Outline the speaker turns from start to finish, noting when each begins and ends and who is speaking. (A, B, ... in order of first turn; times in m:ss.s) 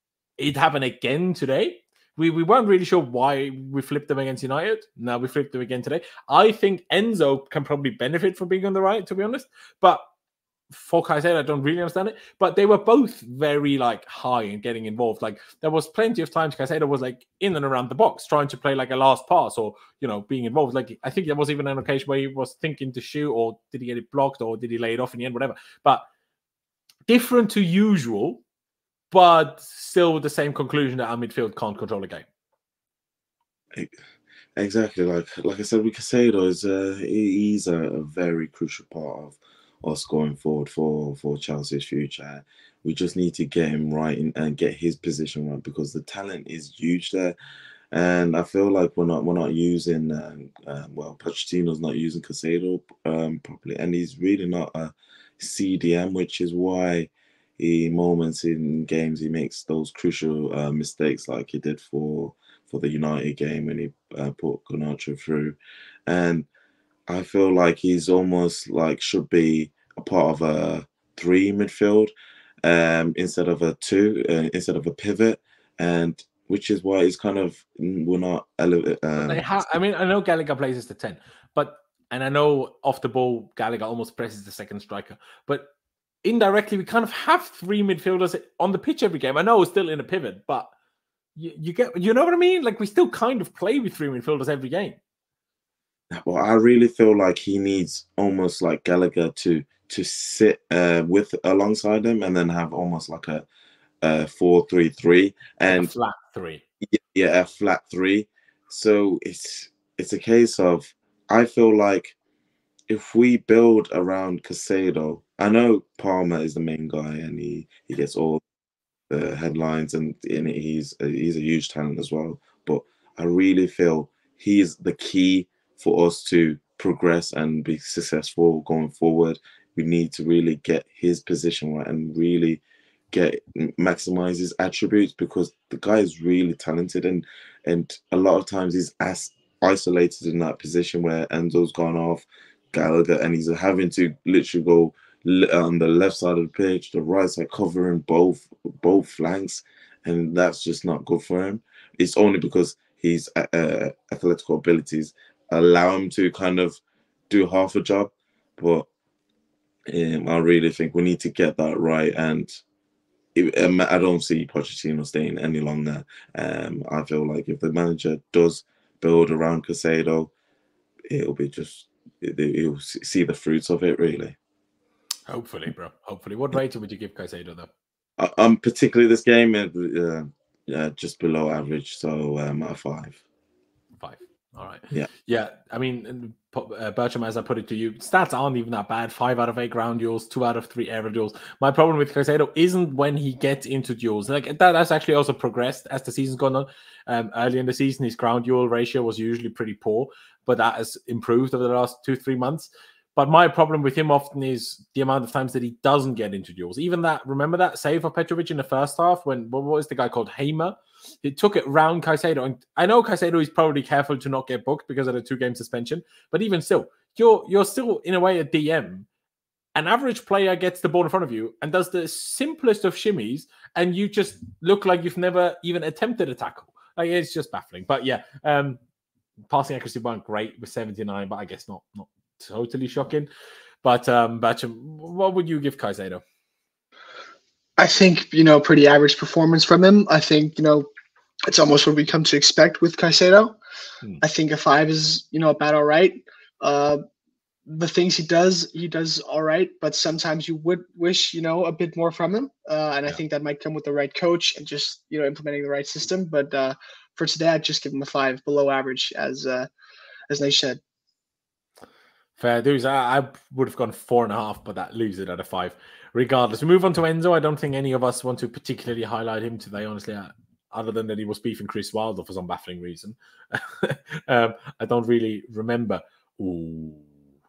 0:00.4-0:10.0 A
0:10.7-0:26.0 A
0:27.1-0:28.4 A
0:29.1-0:32.3 A
0:34.6-0:47.3 B
0:47.9-1:06.5 B
1:07.1-1:12.1 B
1:12.6-1:19.4 B
1:19.2-1:25.7 A
1:26.2-1:30.7 A
1:31.4-1:35.0 A
1:36.1-1:43.4 B
1:44.0-1:45.9 B
1:45.6-1:46.6 A
1:46.8-1:52.1 B
1:52.9-1:58.4 B
1:59.1-2:38.9 B
2:39.9-2:42.6 B
2:43.3-2:50.3 B
2:51.1-2:54.4 B
2:55.3-2:57.7 A
2:58.2-3:03.2 B
3:04.0-3:39.1 A
3:39.7-3:48.8 A
3:49.5-3:53.3 A
3:53.8-3:56.2 A
3:57.8-4:00.9 C
4:01.5-4:03.6 C
4:04.2-4:07.0 C
4:07.7-4:19.7 C
4:20.3-4:20.8 C
4:22.4-4:37.1 A